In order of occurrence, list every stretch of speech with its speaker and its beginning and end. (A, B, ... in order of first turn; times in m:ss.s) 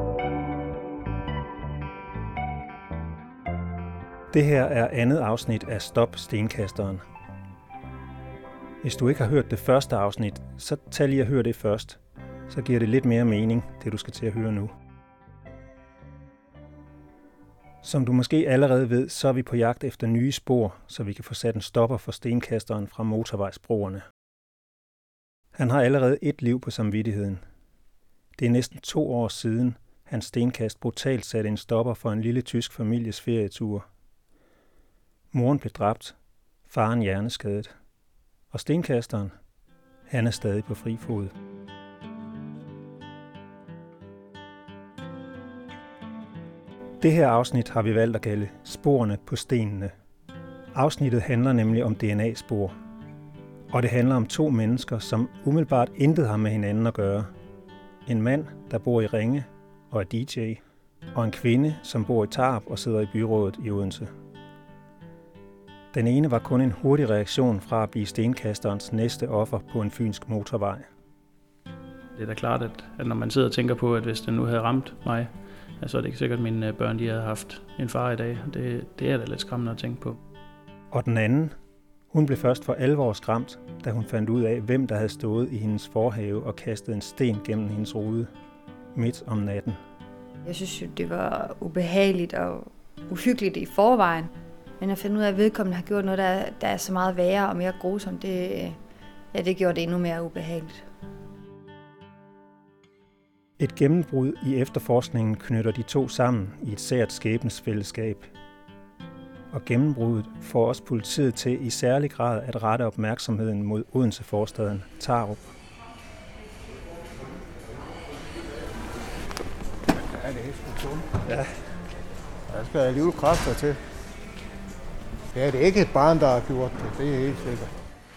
0:04.3-0:07.0 A
0:08.8-0:14.7 A
0:17.8-0:24.0 A
0:25.6-0:27.4 A
0:28.4-0:33.9 A
0:35.3-0:36.1 A
0:36.7-0:37.7 A
0:38.5-0:39.3 A
0:40.1-0:41.3 A
0:47.0-0:49.9 A
0:50.7-0:52.8 A
0:53.7-0:57.3 A
0:58.0-1:00.6 A
1:01.1-1:04.1 A
1:05.9-1:10.9 A
1:12.2-1:20.2 B
1:20.9-1:21.5 A
1:22.1-1:28.3 A
1:28.9-1:29.8 A
1:30.4-1:38.8 C
1:39.3-1:40.8 C
1:43.6-1:48.3 A
1:49.5-1:55.5 A
2:00.1-2:01.1 D
2:01.3-2:01.5 A
2:02.5-2:03.8 D
2:05.3-2:07.7 D